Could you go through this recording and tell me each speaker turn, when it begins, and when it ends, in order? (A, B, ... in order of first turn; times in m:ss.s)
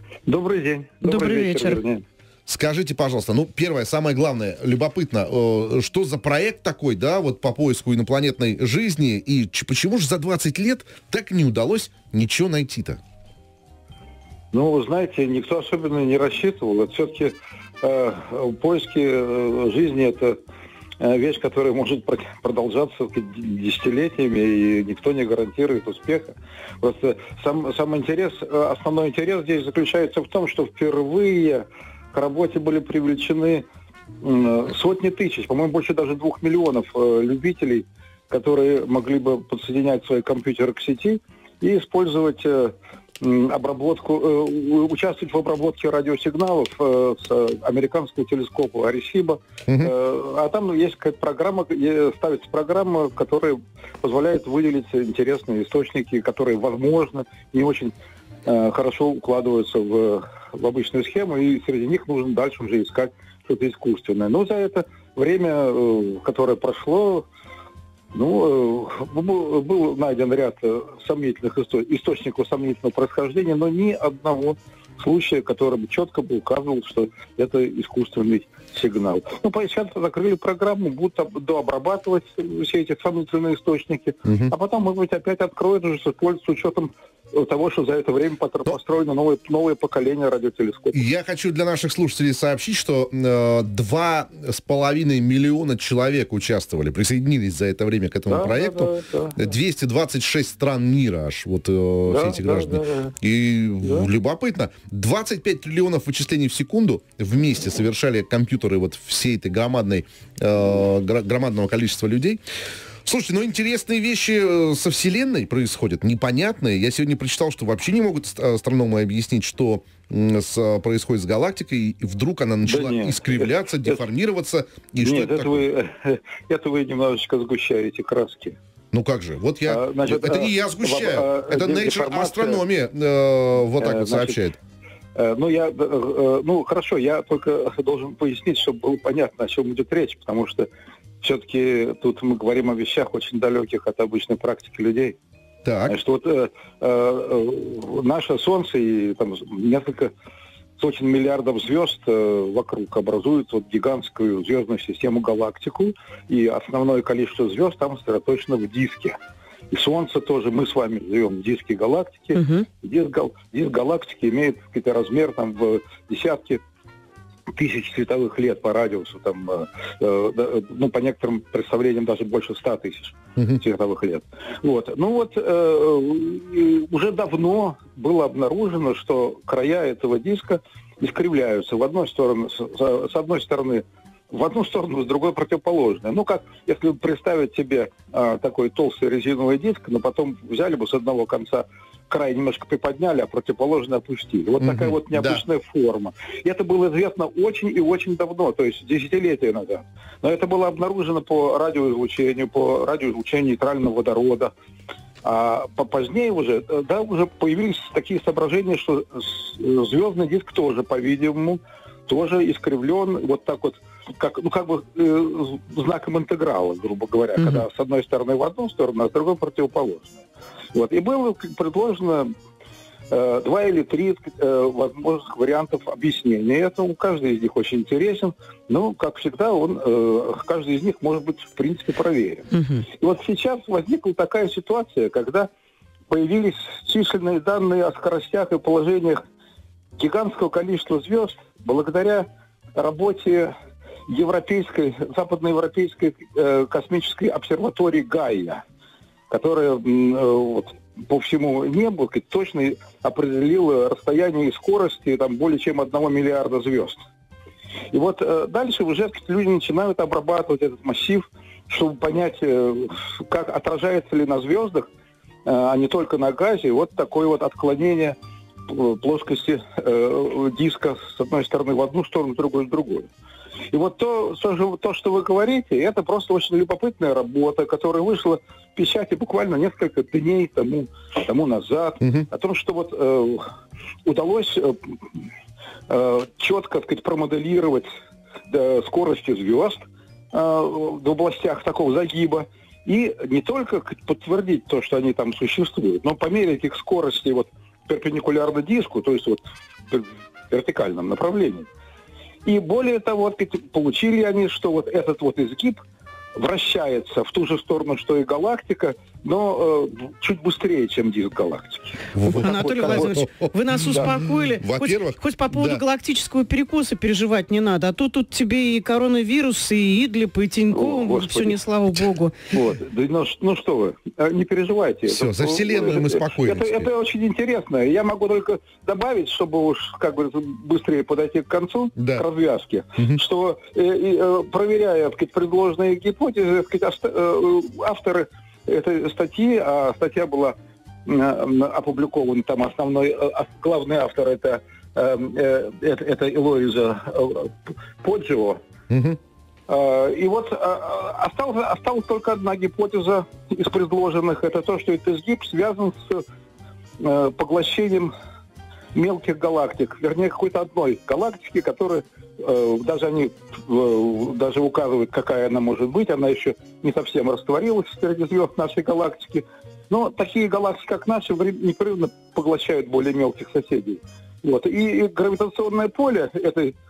0:00.3-0:02.0 A
0:01.0-0:01.8 B
0:02.5-0:13.0 C
0:14.5-0:20.4 A
0:21.0-0:33.6 A
0:34.2-0:57.9 A
0:49.7-0:49.9 C
0:58.4-1:07.3 A
1:08.1-1:31.0 A
1:24.2-1:24.5 C
1:30.9-1:52.4 C
1:38.3-1:39.4 A
1:42.1-1:43.1 A
1:43.8-1:44.1 A
1:53.0-2:05.6 C
2:02.6-2:04.0 A
2:05.0-2:08.6 A
2:08.9-2:14.6 C
2:09.7-2:12.6 A
2:13.8-2:14.4 A
2:15.2-2:20.7 A
2:21.2-2:25.2 A
2:25.6-2:25.9 C
2:25.9-2:30.1 A
2:30.8-2:39.2 A
2:39.7-2:46.6 A
2:42.3-2:42.6 B
2:47.5-3:24.5 A
3:14.6-3:15.4 C
3:25.2-3:42.3 A
3:37.4-3:37.6 B
3:43.1-3:55.5 A
3:52.5-3:52.8 B
3:56.1-3:59.2 A
4:00.0-4:03.5 A
4:04.1-4:08.6 A
4:09.3-4:17.0 A
4:17.9-4:24.9 A
4:25.4-4:28.2 A
4:28.7-4:33.1 A
4:33.7-4:43.4 A
4:44.0-4:44.9 A
4:45.9-4:47.8 A
4:48.5-4:49.8 A
4:50.3-5:01.7 A
5:02.4-5:05.8 A
5:06.4-5:13.2 A
5:12.1-5:15.8 C
5:12.2-5:22.4 B
5:13.8-5:14.1 A
5:20.7-5:21.6 A
5:22.5-5:40.5 A
5:25.1-5:26.9 C
5:32.0-5:32.2 C
5:41.0-5:48.6 A
5:48.9-5:49.2 C
5:49.7-5:56.2 A
5:57.0-5:58.1 A
5:58.9-6:16.7 A